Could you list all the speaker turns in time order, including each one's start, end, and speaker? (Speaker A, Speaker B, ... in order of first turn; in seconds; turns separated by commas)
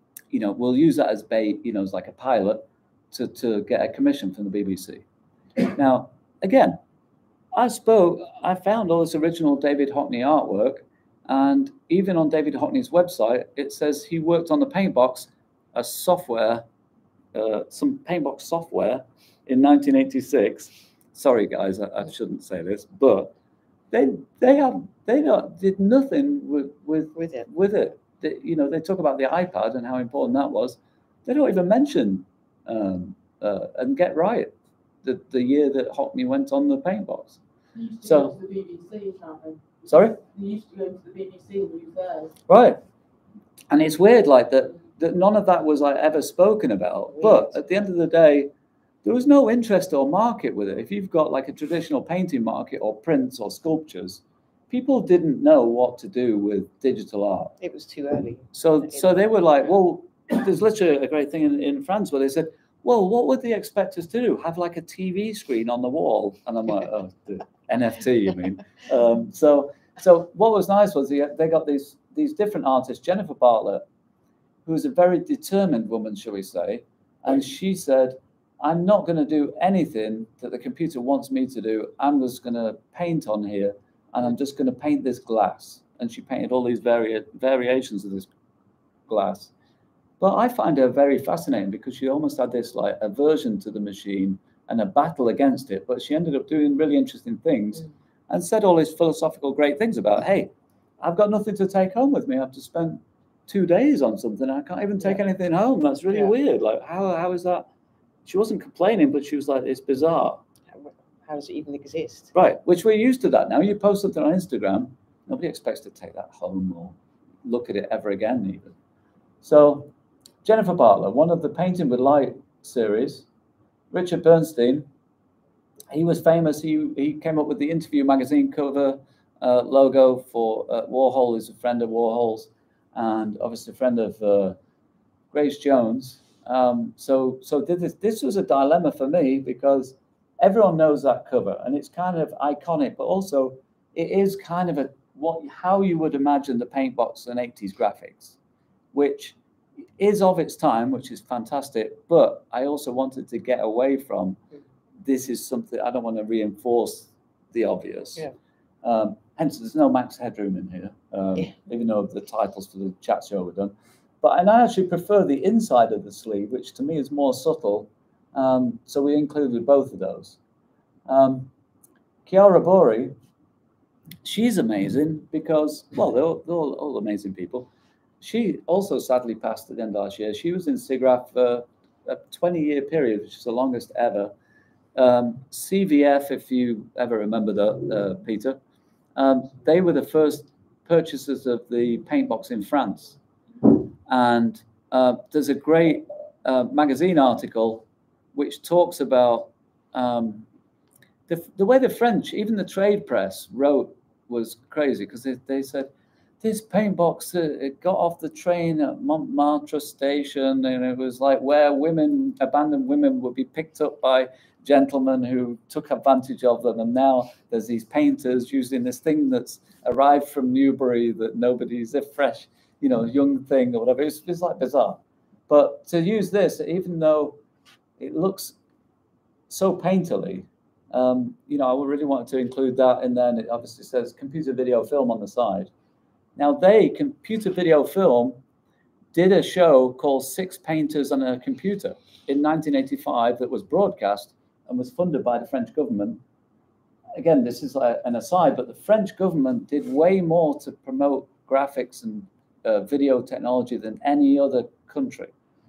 Speaker A: 0.3-5.0, Speaker A: 5.6-6.8, Speaker A: 7.5-16.6, Speaker A: 17.3-23.3, Speaker A: 23.9-34.5, Speaker B: 27.2-27.5, Speaker A: 35.0-37.4, Speaker C: 37.8-42.4, Speaker A: 38.0-38.4, Speaker A: 39.9-40.2, Speaker A: 42.5-42.8, Speaker A: 43.7-48.5, Speaker B: 47.2-47.5, Speaker A: 49.0-57.5, Speaker B: 57.6-59.1, Speaker A: 58.5-73.8, Speaker A: 74.7-88.3, Speaker A: 89.1-89.5, Speaker A: 90.2-107.7, Speaker A: 108.3-110.4, Speaker B: 110.8-112.3, Speaker A: 112.3-118.7, Speaker A: 119.4-119.9, Speaker A: 120.4-123.3, Speaker A: 123.9-124.9, Speaker A: 125.9-134.6, Speaker A: 135.3-148.4, Speaker A: 148.9-149.4, Speaker A: 150.0-154.4, Speaker A: 155.0-158.3, Speaker A: 158.8-170.4, Speaker A: 171.1-171.5, Speaker A: 172.3-173.1, Speaker A: 174.2-177.7, Speaker A: 178.2-184.3, Speaker A: 184.9-188.6, Speaker A: 189.2-200.5, Speaker A: 201.3-205.9, Speaker A: 206.4-227.4, Speaker A: 228.0-228.6, Speaker A: 229.5-235.7, Speaker A: 236.4-238.4, Speaker A: 239.1-246.2, Speaker A: 247.2-255.3